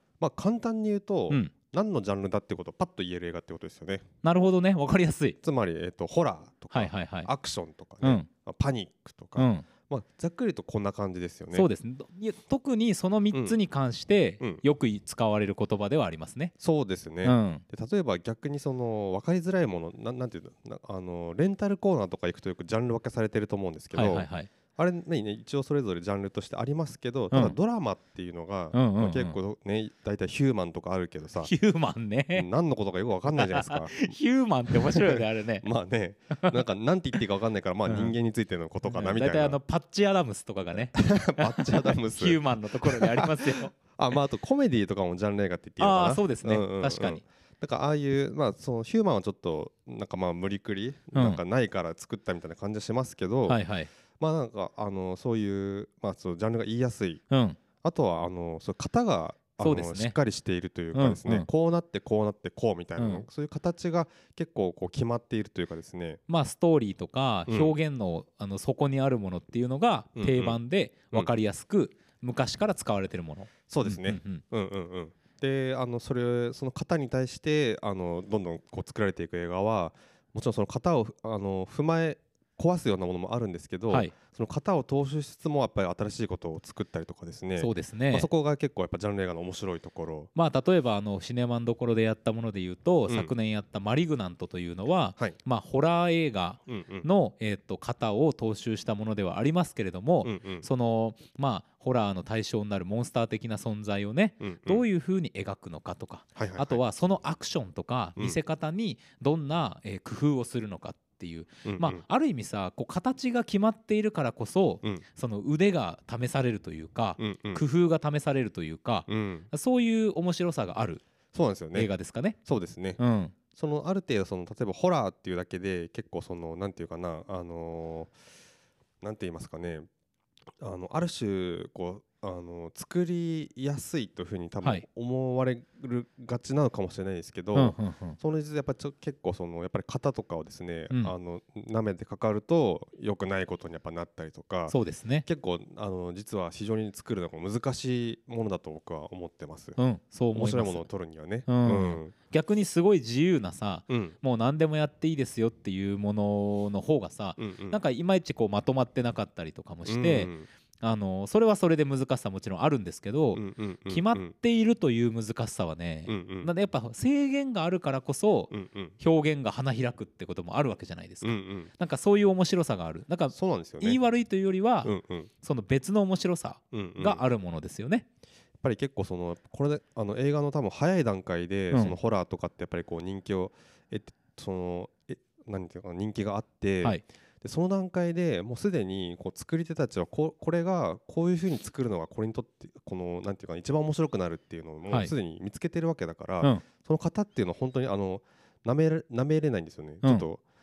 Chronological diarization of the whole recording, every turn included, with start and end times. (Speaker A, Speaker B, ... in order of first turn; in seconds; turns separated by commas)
Speaker A: 0.2-4.0, Speaker B: 4.2-5.4, Speaker A: 5.4-11.7, Speaker B: 6.7-7.3, Speaker B: 8.0-8.3, Speaker B: 9.4-9.7, Speaker B: 11.5-16.5, Speaker A: 13.3-13.6, Speaker A: 16.6-31.5, Speaker B: 17.2-17.6, Speaker B: 23.9-24.5, Speaker B: 27.3-27.6, Speaker B: 28.7-29.4, Speaker B: 31.4-32.5, Speaker A: 32.3-34.1, Speaker B: 33.3-35.7, Speaker A: 34.7-39.6, Speaker B: 37.9-38.1, Speaker B: 38.9-43.7, Speaker A: 40.8-53.6, Speaker B: 45.8-47.2, Speaker B: 51.1-51.4, Speaker B: 53.5-53.9, Speaker A: 54.2-57.2, Speaker B: 57.3-57.6, Speaker A: 57.8-66.2, Speaker B: 59.6-60.1, Speaker B: 60.9-61.5, Speaker B: 63.0-63.2, Speaker B: 66.3-74.4, Speaker A: 67.5-67.7, Speaker A: 70.2-70.6, Speaker A: 73.7-90.3, Speaker B: 87.6-88.3, Speaker B: 90.3-121.0, Speaker A: 96.7-97.0, Speaker A: 100.2-100.7, Speaker A: 104.4-104.8, Speaker A: 106.3-106.8, Speaker A: 111.6-112.0, Speaker A: 117.2-117.6, Speaker A: 119.1-119.5, Speaker A: 121.3-121.9, Speaker B: 121.7-122.4, Speaker A: 122.4-123.0, Speaker B: 123.0-123.3, Speaker A: 123.5-128.1, Speaker A: 129.0-129.8, Speaker A: 130.6-149.8, Speaker B: 137.5-138.2, Speaker B: 144.7-145.3, Speaker B: 149.8-150.9, Speaker A: 150.3-152.1, Speaker B: 151.5-160.3, Speaker A: 153.9-154.2, Speaker A: 157.4-157.8, Speaker A: 159.9-160.5, Speaker B: 160.8-178.1, Speaker A: 163.3-164.3, Speaker A: 166.1-166.5, Speaker A: 168.5-168.9, Speaker A: 171.2-171.7, Speaker A: 173.3-174.0, Speaker A: 174.8-175.3, Speaker A: 176.7-177.2, Speaker A: 178.6-200.4